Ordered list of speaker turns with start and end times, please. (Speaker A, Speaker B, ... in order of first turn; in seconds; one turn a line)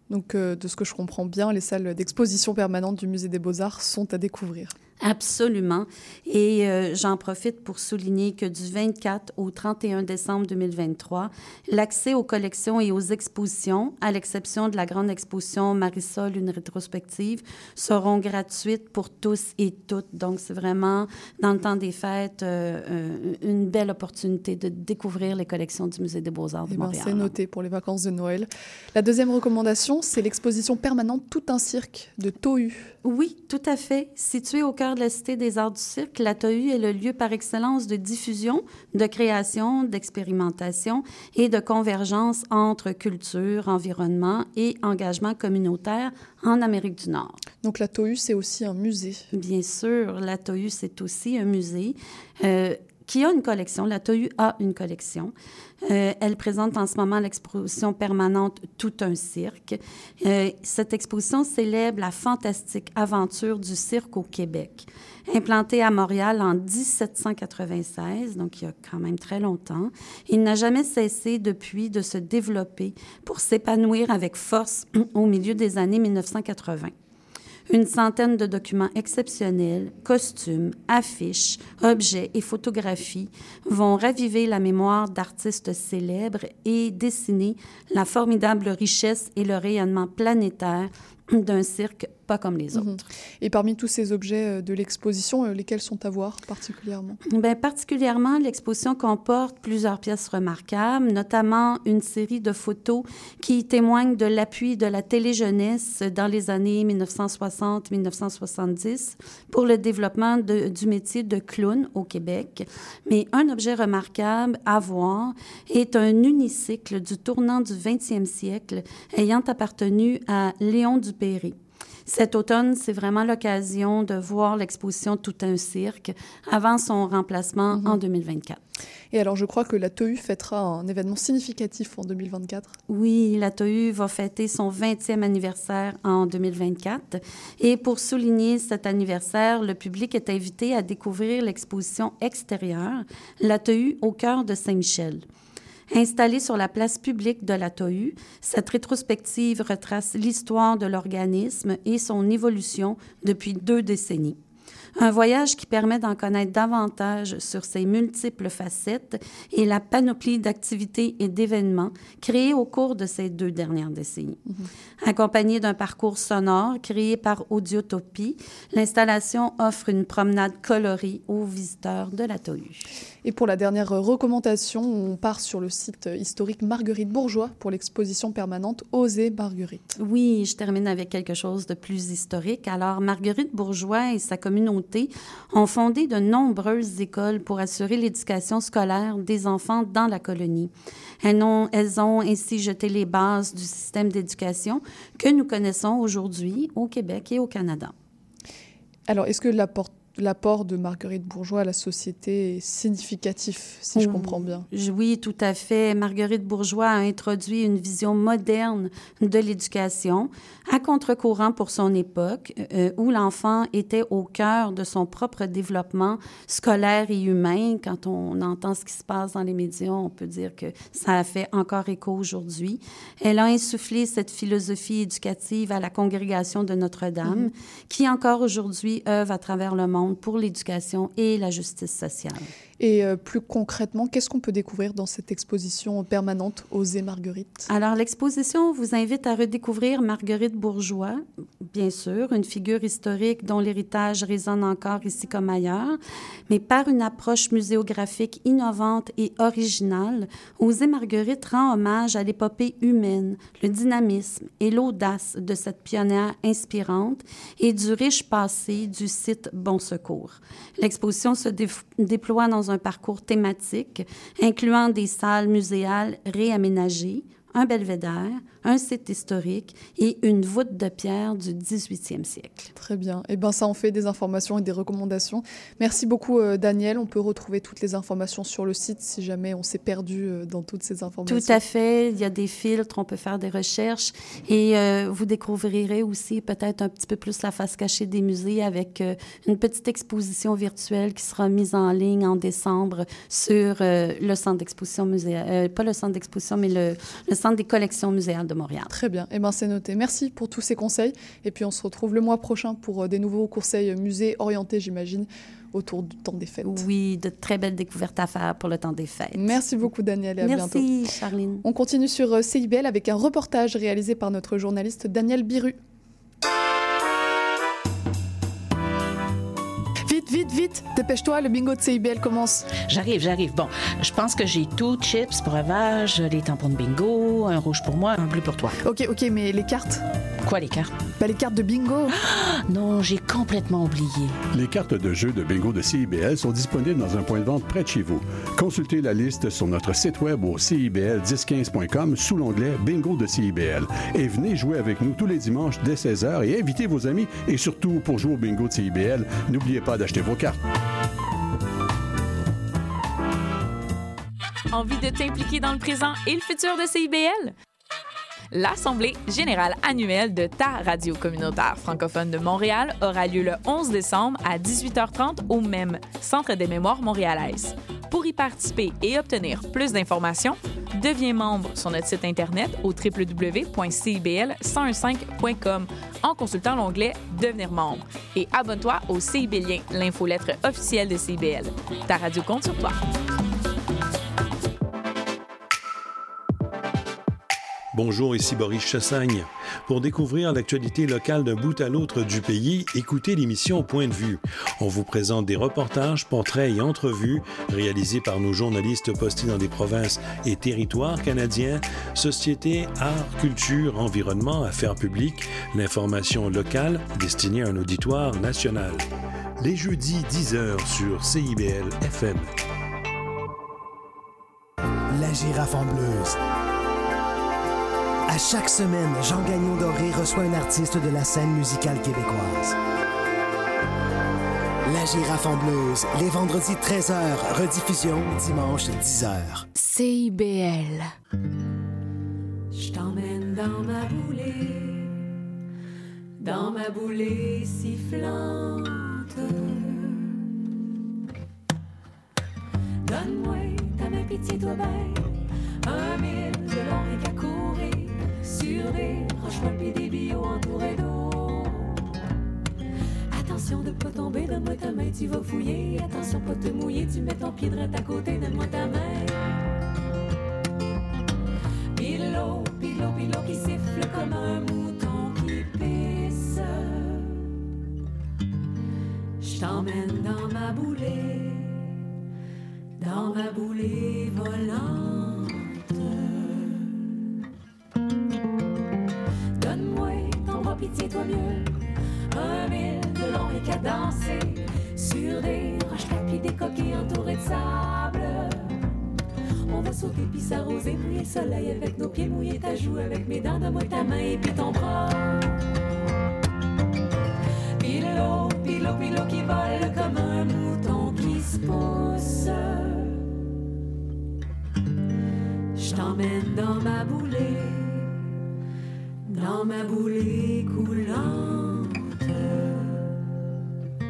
Speaker A: 0.1-4.7
Speaker B: 5.0-27.3
Speaker A: 26.7-32.9
Speaker B: 33.0-47.4
Speaker A: 47.6-49.2
Speaker B: 49.3-55.3
Speaker B: 55.8-76.9
Speaker B: 77.7-92.9
Speaker A: 92.7-97.2
Speaker B: 97.3-121.5
Speaker B: 122.1-128.6
Speaker A: 127.7-128.0
Speaker A: 129.1-132.7
Speaker B: 132.9-145.2
Speaker B: 145.9-154.4
Speaker B: 155.0-164.4
Speaker B: 165.0-172.9
Speaker A: 173.2-179.8
Speaker B: 180.0-190.7
Speaker B: 191.2-197.9
Speaker A: 199.1-204.7
Speaker B: 203.9-232.5
Speaker A: 227.2-227.5
Speaker A: 232.8-237.6
Speaker B: 237.7-246.0
Speaker B: 246.5-272.7
Speaker A: 272.7-281.6
Speaker B: 281.2-298.9
Speaker A: 298.9-306.8
Speaker B: 306.6-309.6
Speaker A: 309.3-310.8
Speaker B: 310.4-311.6
Speaker A: 311.6-315.8
Speaker A: 320.1-322.7
Speaker C: 322.7-328.8
Speaker A: 328.8-330.0
Speaker C: 330.4-330.9
Speaker A: 331.2-332.1
Speaker C: 332.2-334.4
Speaker D: 334.5-350.6
Speaker E: 354.7-357.5
Speaker E: 358.5-383.0
Speaker F: 387.9-409.1
Speaker F: 409.6-412.5
Speaker G: 415.1-416.4
Speaker G: 418.3-422.8
Speaker G: 424.9-429.7
Speaker E: 429.7-431.1
Speaker H: 432.7-435.3
Speaker H: 436.4-440.4
Speaker H: 443.0-445.3
Speaker H: 445.8-452.0
Speaker H: 453.3-459.6
Speaker H: 461.9-467.5
Speaker H: 469.4-471.9
Speaker H: 473.0-477.0
Speaker H: 479.6-481.7
Speaker H: 482.3-488.8
Speaker H: 489.7-495.5
Speaker H: 497.8-503.2
Speaker H: 505.8-508.2
Speaker H: 509.3-513.1